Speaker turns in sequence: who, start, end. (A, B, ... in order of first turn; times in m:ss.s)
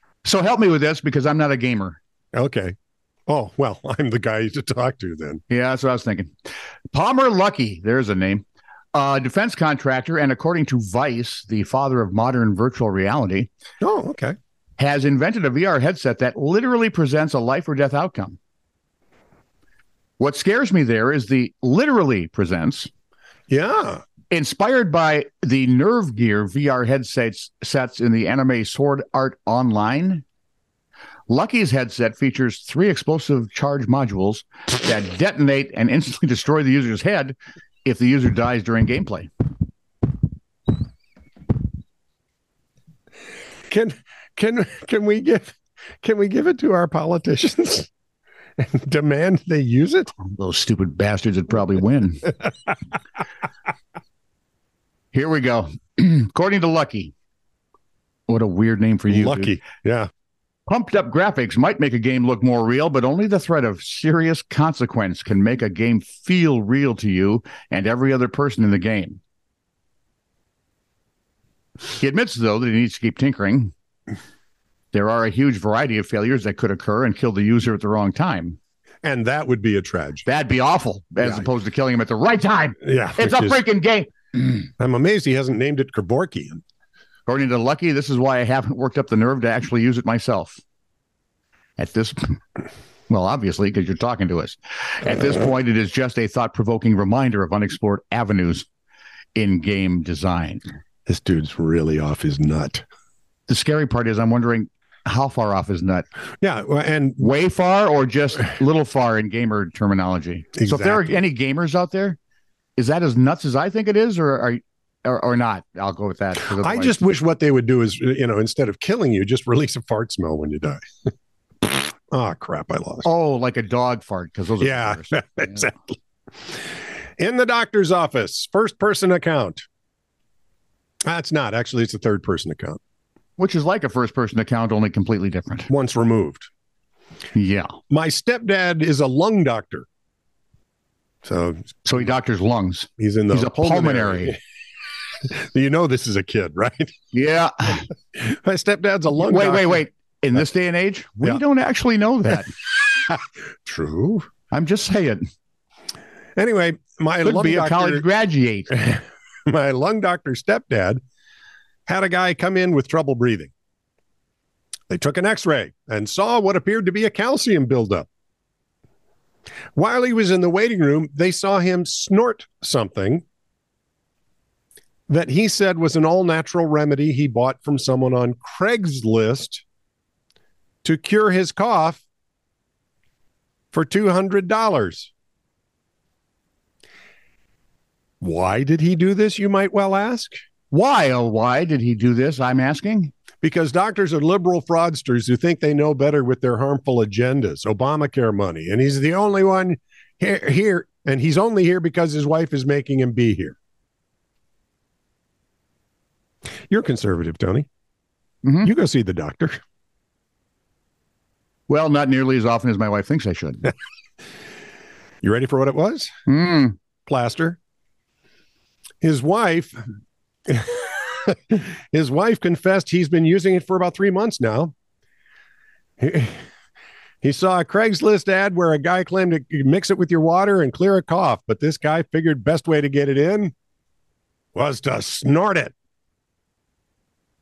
0:00.2-0:02.0 A
0:02.3-0:02.8 B
0:03.3-0:05.4 B
0:05.5-0:06.3 A
0:06.9-0:13.5 A
0:13.8-0:14.4 B
0:14.8-0:18.4 A
0:20.2-0:22.9 A
0:23.5-0:24.0 B
0:24.3-0:30.2 A
0:31.3-0:39.3 A
0:43.7-0:47.9 B
0:48.6-0:50.1 B
0:50.2-0:52.4 A
0:55.1-0:57.1 A
0:58.3-0:59.6 A
0:59.1-1:00.1 B
1:00.7-1:09.2 A
1:12.0-1:13.7 A
1:14.9-1:18.6 A
1:19.0-1:20.3 B
1:20.3-1:24.1 A
1:22.8-1:23.6 B
1:24.8-1:26.6 B
1:27.3-1:30.6 A
1:31.8-1:32.4 A
1:33.1-1:38.7 A
1:39.4-1:40.6 A
1:41.1-1:42.8 B
1:43.5-1:46.0 A
1:46.4-1:47.2 B
1:47.2-1:52.2 A
1:50.6-1:51.1 B
1:52.8-1:57.0 A
1:56.4-2:00.8 B
2:01.6-2:03.1 B
2:03.0-2:05.7 A
2:04.6-2:05.9 B
2:07.2-2:09.6 B
2:11.1-2:12.8 B
2:13.4-2:15.7 A
2:15.7-2:16.5 B
2:17.3-2:17.7 A
2:17.9-2:19.9 B
2:21.2-2:21.8 B
2:21.8-2:24.4 A
2:23.0-2:24.4 B
2:25.2-2:26.9 B
2:27.1-2:27.9 A
2:28.2-2:29.8 B
2:29.2-2:32.5 A
2:33.1-2:34.3 B
2:34.5-2:35.2 A
2:36.4-2:38.0 B
2:37.2-2:38.7 A
2:38.7-2:41.0 B
2:41.9-2:43.5 B
2:44.9-2:48.1 B
2:49.8-2:53.2 B
2:55.1-2:59.6 B
3:00.8-3:02.0 B
3:03.7-3:05.1 B
3:08.2-3:10.4 B
3:10.7-3:13.1 A
3:13.4-3:23.6 B
3:26.7-3:27.7 B
3:28.4-3:28.7 A
3:28.6-3:29.6 B
3:31.7-3:33.7 A
3:35.2-3:36.1 B
3:36.3-3:36.8 A
3:37.1-3:37.6 B
3:39.0-3:39.8 B
3:40.5-3:44.7 B
3:46.0-3:46.4 B
3:47.2-3:53.5 B
3:54.6-3:55.7 B